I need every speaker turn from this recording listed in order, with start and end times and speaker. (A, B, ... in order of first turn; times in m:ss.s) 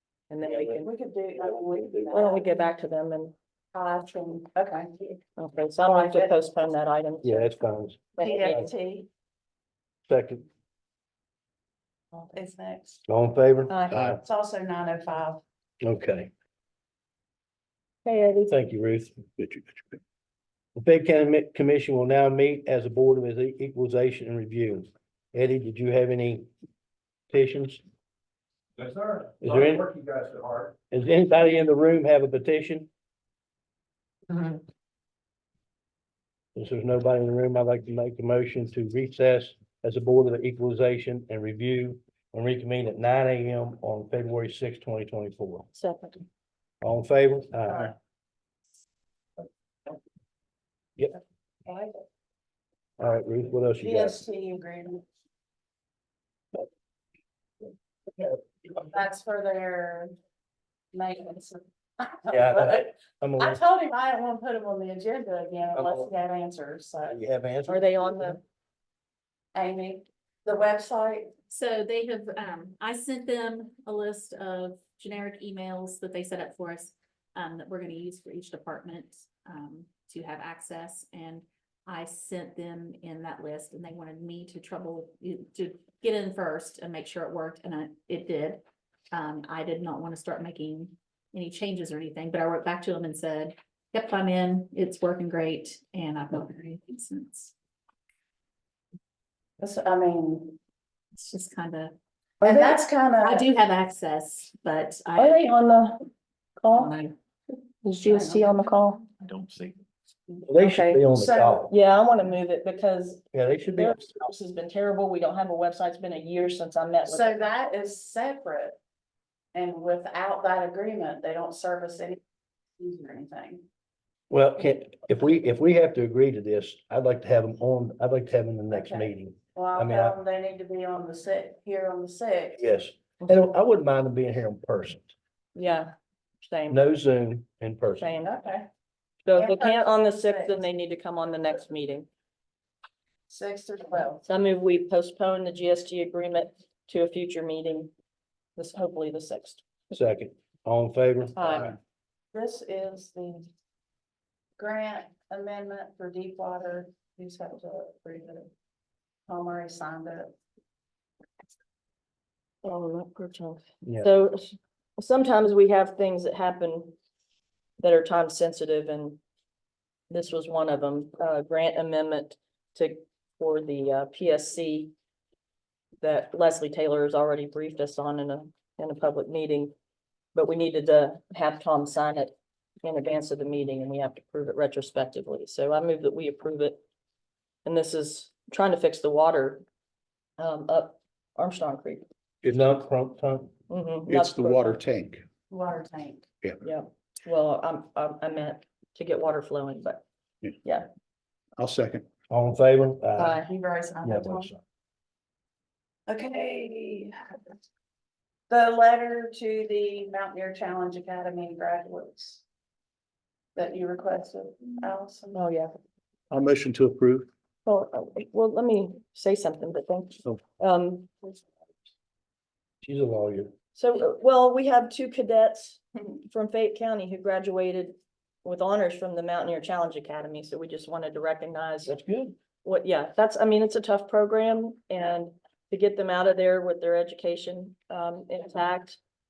0:00.3-0:00.9 A
0:00.8-0:02.5 B
0:01.7-0:02.1 C
0:02.1-0:03.3 A
0:03.7-0:05.2 B
0:05.4-0:07.5 A
0:05.8-0:06.3 B
0:07.2-0:08.6 C
0:08.1-0:08.7 A
0:08.2-0:09.1 B
0:10.1-0:10.5 C
0:12.1-0:13.0 B
0:13.1-0:14.2 C
0:13.7-0:14.0 A
0:13.9-0:14.2 D
0:14.2-0:15.4 B
0:15.8-0:16.3 C
0:18.0-0:18.5 A
0:18.5-0:19.2 C
0:19.4-0:20.0 D
0:20.8-0:26.5 C
0:27.3-0:27.8 C
0:28.8-0:30.7 E
0:29.4-0:29.9 C
0:30.9-0:32.9 C
0:36.5-0:45.6 C
0:45.7-0:46.2 A
0:46.8-0:47.9 C
0:53.0-0:54.2 C
0:53.8-0:55.0 B
0:58.8-1:00.1 B
1:00.9-1:02.8 B
1:02.3-1:03.6 C
1:03.4-1:07.2 B
1:05.7-1:06.1 C
1:07.1-1:08.3 C
1:07.7-1:08.4 A
1:09.5-1:11.3 B
1:11.5-1:37.5 F
1:39.6-1:40.6 B
1:41.2-1:42.6 F
1:42.4-1:43.5 B
1:43.2-1:45.5 F
1:45.1-1:46.0 A
1:46.6-1:46.9 A
1:46.7-1:47.1 F
1:47.8-1:49.1 A
1:48.0-1:48.4 F
1:50.4-1:51.7 C
1:50.6-1:51.0 A
1:50.7-1:51.7 B
1:51.7-1:57.4 A
1:53.3-1:54.3 C
1:57.1-1:58.8 B
1:59.5-2:02.2 B
2:02.8-2:03.6 B
2:04.3-2:10.2 C
2:08.7-2:12.6 B
2:12.6-2:15.1 C
2:15.5-2:16.8 A
2:16.7-2:18.1 C
2:18.0-2:18.7 A
2:19.2-2:22.1 A
2:19.4-2:20.6 B
2:23.3-2:24.2 B
2:24.2-2:27.9 A
2:28.6-2:29.6 A
2:29.9-2:31.7 C
2:31.4-2:31.8 A
2:32.3-2:33.5 B
2:34.6-2:38.5 B
2:39.3-2:40.3 B
2:42.6-2:47.0 A
2:43.8-2:44.1 C
2:47.8-2:49.2 A
2:50.1-2:54.9 A
2:56.0-2:59.7 A
3:00.3-3:06.8 A
3:07.6-3:09.6 A
3:10.4-3:12.0 A
3:12.4-3:13.5 C
3:13.7-3:14.8 A
3:14.1-3:15.2 D
3:15.5-3:16.3 B
3:16.6-3:20.0 A
3:20.6-3:20.9 A
3:21.6-3:22.0 D
3:22.3-3:23.4 C
3:23.2-3:24.5 B
3:24.0-3:24.6 C
3:26.1-3:27.4 B
3:28.5-3:32.4 B
3:33.5-3:35.4 B
3:35.3-3:35.7 A
3:36.3-3:37.3 D
3:37.6-3:41.4 A
3:42.8-3:43.5 C
3:43.7-3:51.9 A
3:51.9-3:52.3 C
3:52.6-3:59.0 A